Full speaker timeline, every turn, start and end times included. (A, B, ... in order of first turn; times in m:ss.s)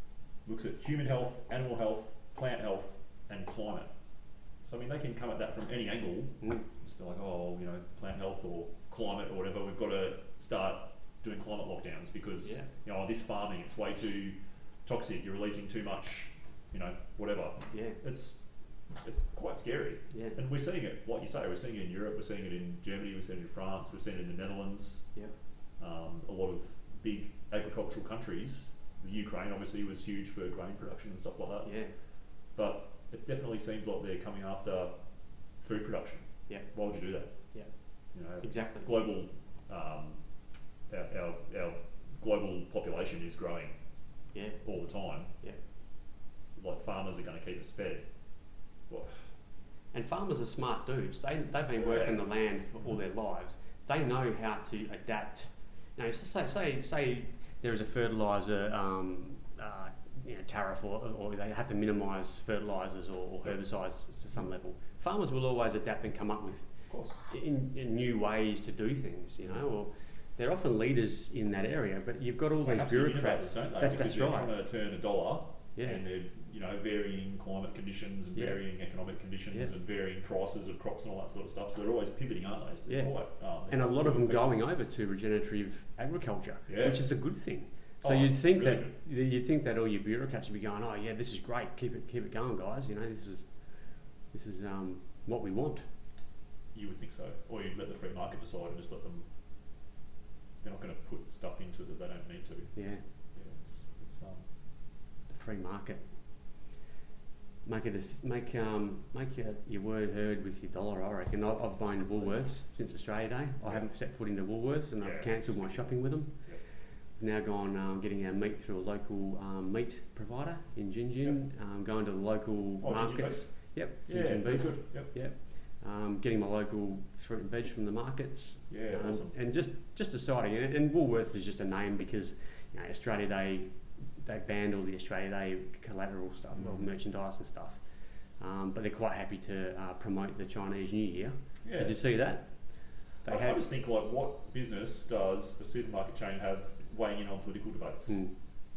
0:00.4-0:03.9 A
0:04.6-0:18.4 A
0:12.4-0:12.7 B
0:17.7-0:18.0 B
0:19.0-0:25.1 A
0:20.1-0:20.4 B
0:25.8-0:31.8 A
0:31.6-0:31.9 B
0:32.5-0:35.0 A
0:35.6-0:37.3 A
0:38.1-0:40.2 A
0:38.4-0:38.9 B
0:40.9-0:43.7 A
0:44.3-0:44.6 B
0:44.6-0:45.3 A
0:46.5-0:48.0 A
0:48.9-0:49.3 A
0:49.9-1:06.7 B
0:51.8-0:52.2 A
1:06.9-1:07.2 A
1:07.2-1:14.5 B
1:12.6-1:24.5 A
1:15.8-1:16.0 B
1:22.9-1:23.1 B
1:23.7-1:35.8 B
1:26.7-1:27.0 A
1:28.0-1:28.9 A
1:36.7-1:39.2 A
1:40.6-1:44.4 A
1:42.7-1:43.0 B
1:45.3-1:46.0 B
1:47.6-2:23.6 B
1:55.0-1:56.6 A
2:02.8-2:05.1 A
2:08.7-2:09.3 A
2:16.6-2:16.9 A
2:21.6-2:22.0 A
2:23.2-2:28.2 A
2:28.1-2:28.3 B